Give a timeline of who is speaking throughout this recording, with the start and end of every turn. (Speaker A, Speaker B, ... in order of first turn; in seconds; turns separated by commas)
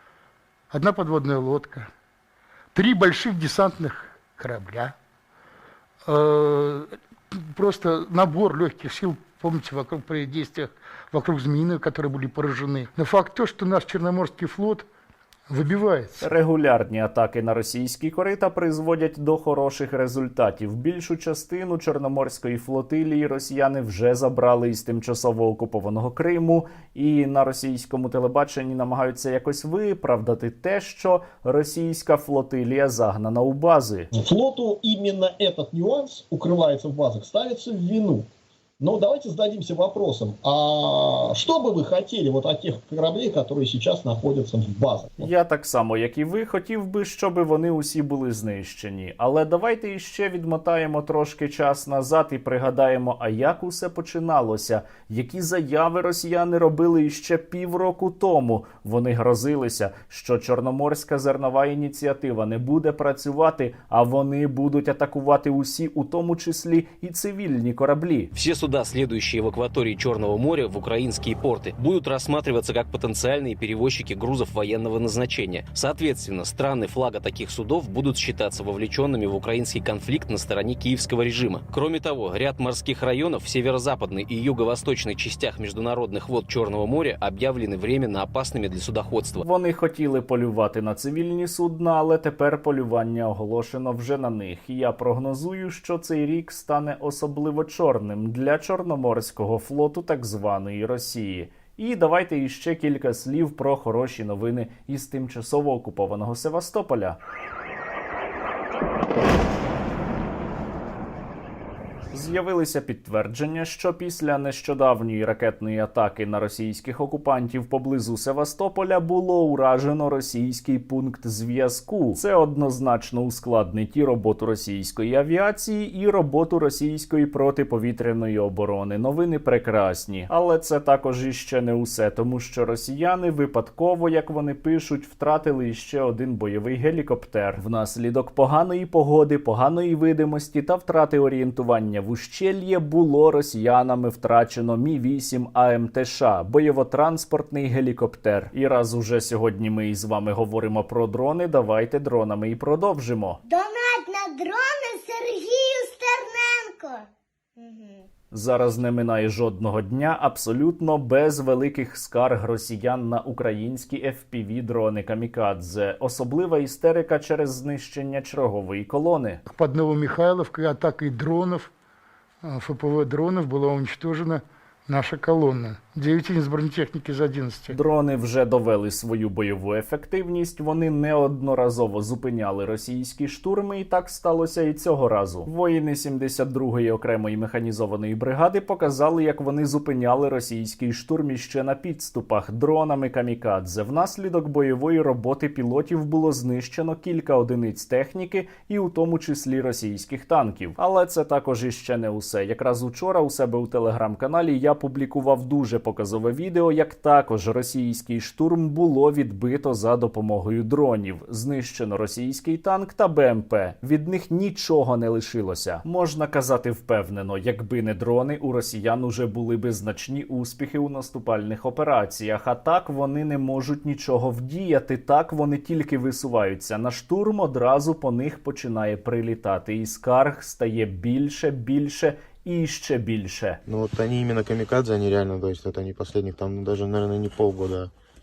Speaker A: 0.7-1.9, Speaker A: 2.7-4.9, Speaker A: 6.0-14.8, Speaker A: 15.5-16.3, Speaker B: 16.2-34.1, Speaker C: 34.2-38.3, Speaker C: 38.8-45.3, Speaker B: 45.2-68.3, Speaker D: 68.3-89.4, Speaker B: 89.4-107.2, Speaker B: 112.1-153.4, Speaker E: 153.4-157.1, Speaker E: 157.6-158.0, Speaker B: 158.3-169.4, Speaker A: 169.5-171.7, Speaker A: 172.4-177.8, Speaker B: 177.7-233.6, Speaker F: 233.7-237.9